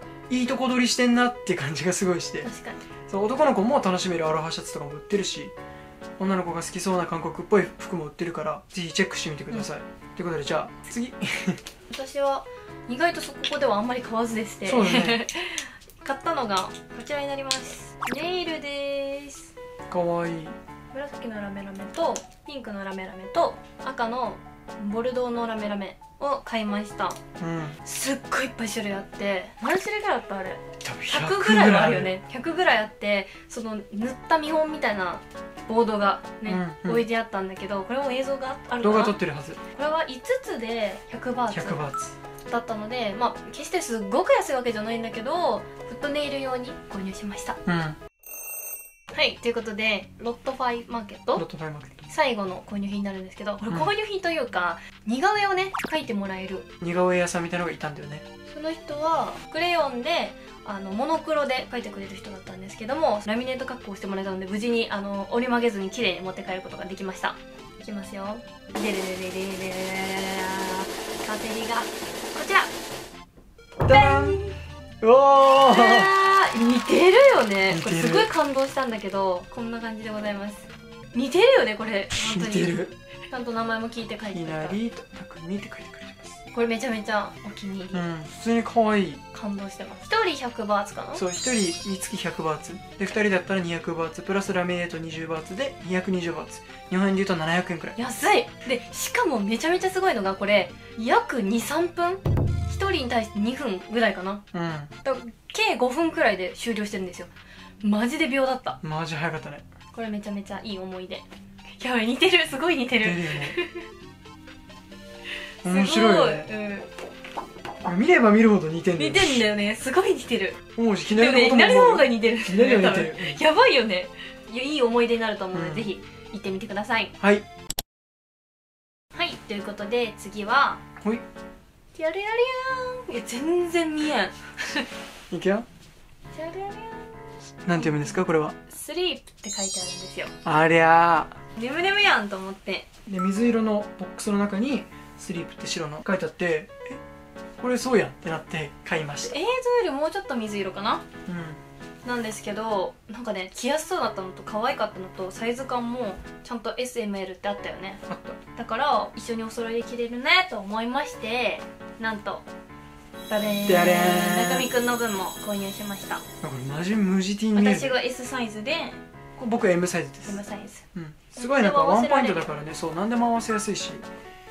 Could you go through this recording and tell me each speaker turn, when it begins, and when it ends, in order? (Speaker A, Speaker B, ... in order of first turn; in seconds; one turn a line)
Speaker A: 0.3-2.5
Speaker B: 2.4-2.9
Speaker A: 3.1-5.5
Speaker A: 6.2-11.6
Speaker B: 11.9-19.5
Speaker A: 14.7-15.2
Speaker A: 19.9-20.6
Speaker B: 20.9-27.2
Speaker A: 27.4-27.8
Speaker B: 27.8-39.2
Speaker A: 30.8-32.1
Speaker A: 36.5-37.0
Speaker A: 38.8-39.6
Speaker B: 39.7-41.9
Speaker A: 41.5-42.1
Speaker B: 42.5-47.6
Speaker A: 47.7-48.0
Speaker B: 49.1-51.5
Speaker A: 51.4-52.0
Speaker B: 52.1-56.7
Speaker A: 56.8-58.2
Speaker B: 58.5-72.7
Speaker A: 73.8-74.4
Speaker B: 73.9-74.6
Speaker A: 75.0-76.1
Speaker B: 75.6-84.8
Speaker A: 77.7-78.3
Speaker A: 82.2-82.9
Speaker A: 84.3-86.4
Speaker B: 86.5-88.0
Speaker A: 87.9-89.2
Speaker B: 89.3-91.2
Speaker A: 91.1-98.0
Speaker B: 98.0-104.4
Speaker A: 104.5-104.9
Speaker B: 105.0-107.3
Speaker B: 107.8-108.8
Speaker A: 108.8-109.7
Speaker B: 109.9-111.2
Speaker B: 111.8-113.9
Speaker A: 113.0-113.6
Speaker A: 115.6-116.5
Speaker B: 115.6-116.9
Speaker A: 117.8-119.4
Speaker B: 119.0-120.6
Speaker A: 120.8-123.4
Speaker B: 121.1-127.1
Speaker A: 125.5-125.9
Speaker A: 127.2-127.5
Speaker B: 129.2-130.8
Speaker B: 131.9-134.9
Speaker A: 135.3-135.7
Speaker B: 136.3-140.3
Speaker A: 137.6-138.6
Speaker A: 140.4-141.4
Speaker B: 141.6-142.9
Speaker A: 143.1-147.0
Speaker A: 147.6-149.4
Speaker B: 149.2-151.1
Speaker A: 151.3-151.6
Speaker B: 152.1-158.0
Speaker A: 158.1-158.4
Speaker B: 158.6-162.4
Speaker B: 163.3-166.2
Speaker A: 163.7-164.7
Speaker A: 166.4-168.0
Speaker B: 167.6-169.0
Speaker A: 169.4-170.4
Speaker B: 170.3-170.8
Speaker A: 170.9-174.1
Speaker B: 171.4-172.5